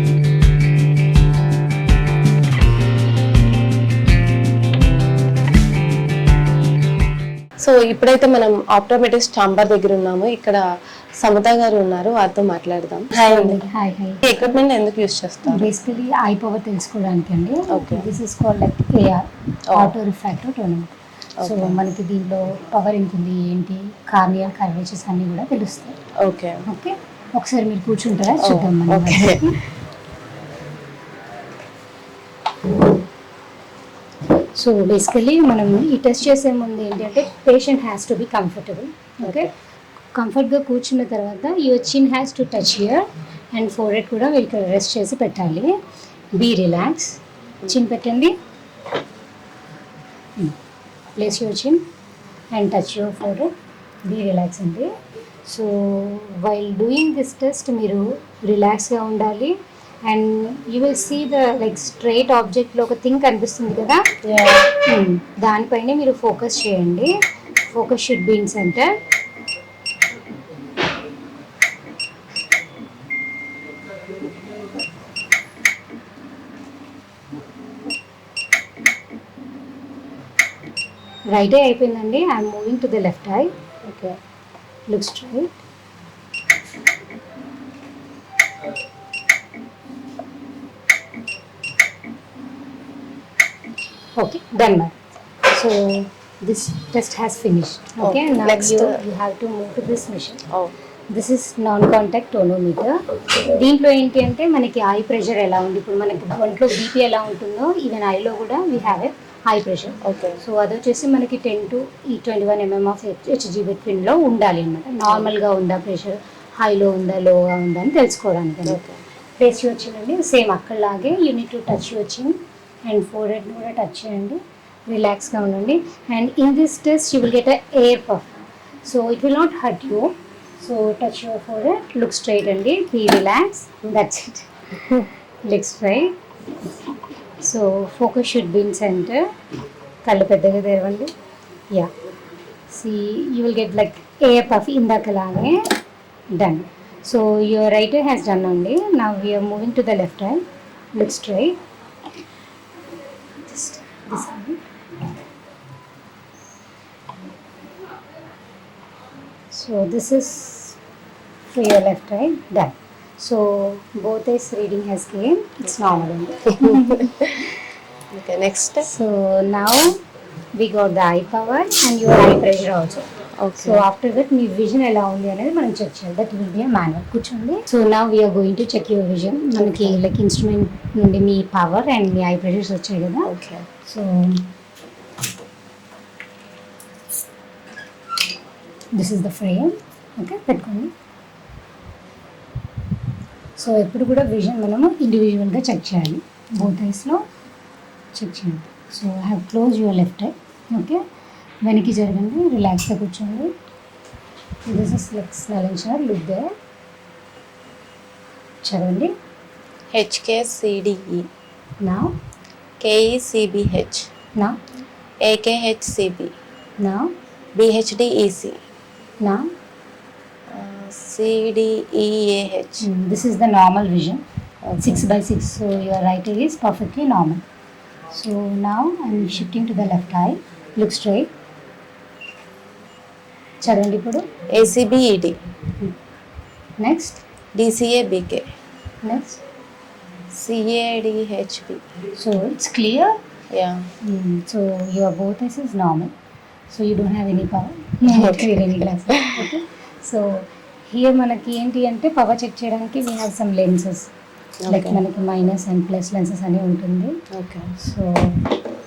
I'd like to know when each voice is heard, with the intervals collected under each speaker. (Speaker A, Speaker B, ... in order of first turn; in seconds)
Speaker A: 7.6-10.6, 11.2-13.6, 14.2-15.7, 17.7-18.1, 21.4-21.8, 26.2-26.6, 28.4-29.5, 39.2-39.5, 64.2-64.7, 83.8-84.2, 98.0-99.0, 110.0-110.4, 118.7-119.0, 166.7-167.4, 168.1-168.9, 173.4-173.8, 179.5-180.0, 183.2-183.7, 209.9-211.3, 212.8-214.1, 215.2-216.3, 217.5-218.6, 220.5-222.9, 224.6-225.1, 234.5-235.4, 237.5-238.5, 240.3-241.8, 243.5-243.9, 248.1-249.5, 254.6-255.0, 257.3-257.7
Speaker B: 13.1-14.2, 15.4-26.0, 26.6-29.6, 34.5-39.5, 40.1-45.7, 46.3-48.3, 51.1-51.8, 52.5-53.5, 54.0-54.9, 55.5-59.5, 60.0-64.0, 64.7-67.1, 67.7-69.0, 81.3-83.5, 84.9-85.5, 94.2-100.4, 101.1-118.8, 119.4-128.3, 128.8-136.1, 137.4-139.3, 140.0-141.1, 142.7-145.6, 146.3-150.4, 150.9-151.6, 153.4-154.6, 159.5-160.8, 161.5-167.3, 168.8-170.0, 170.6-183.3, 183.8-184.5, 188.9-190.9, 193.6-197.2, 198.1-201.0, 201.6-203.5, 204.7-206.5, 208.6-209.1, 211.8-212.1, 216.8-217.1, 219.2-219.5, 222.8-224.2, 224.8-227.4, 228.1-231.3, 233.6-234.3, 236.8-237.2, 239.0-239.4, 242.2-243.1, 244.0-246.1, 246.7-254.1, 254.7-257.2, 257.8-258.4